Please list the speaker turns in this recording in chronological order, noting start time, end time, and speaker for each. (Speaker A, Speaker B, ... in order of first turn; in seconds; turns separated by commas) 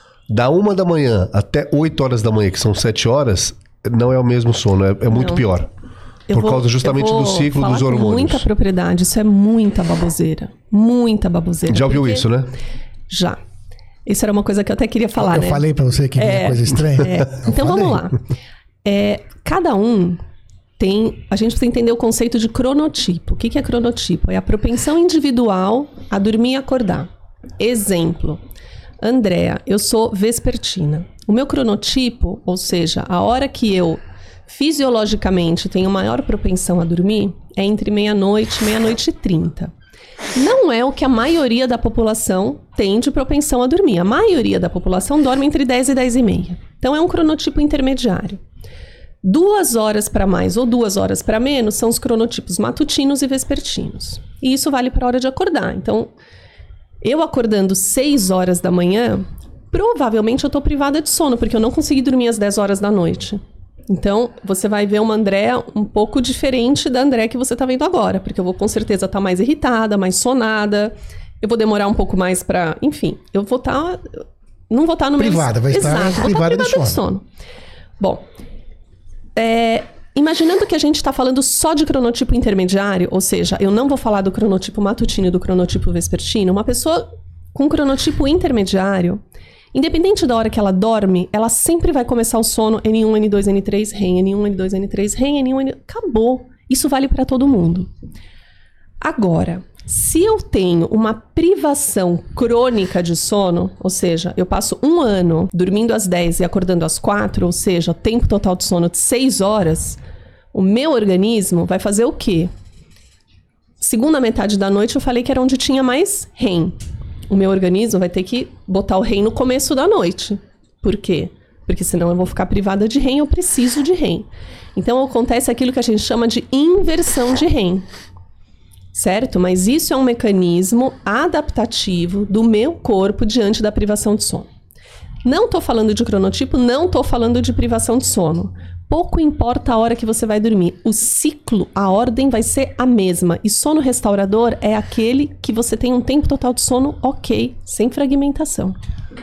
Speaker A: 0.3-5.7, Speaker B: 5.1-5.4, Speaker B: 6.3-12.2, Speaker A: 6.3-8.4, Speaker A: 11.7-12.5, Speaker B: 13.1-13.4, Speaker B: 14.1-15.6, Speaker C: 15.2-18.0, Speaker B: 16.2-18.2, Speaker B: 18.8-20.2, Speaker B: 20.8-28.4, Speaker B: 29.0-39.7, Speaker B: 40.3-48.4, Speaker B: 49.2-56.1, Speaker B: 57.0-77.2, Speaker C: 75.2-77.0, Speaker B: 79.3-89.2, Speaker B: 89.7-97.9, Speaker B: 99.0-110.0, Speaker B: 110.5-112.5, Speaker B: 113.8-116.8, Speaker B: 117.3-127.9, Speaker B: 128.9-134.5, Speaker B: 135.2-148.8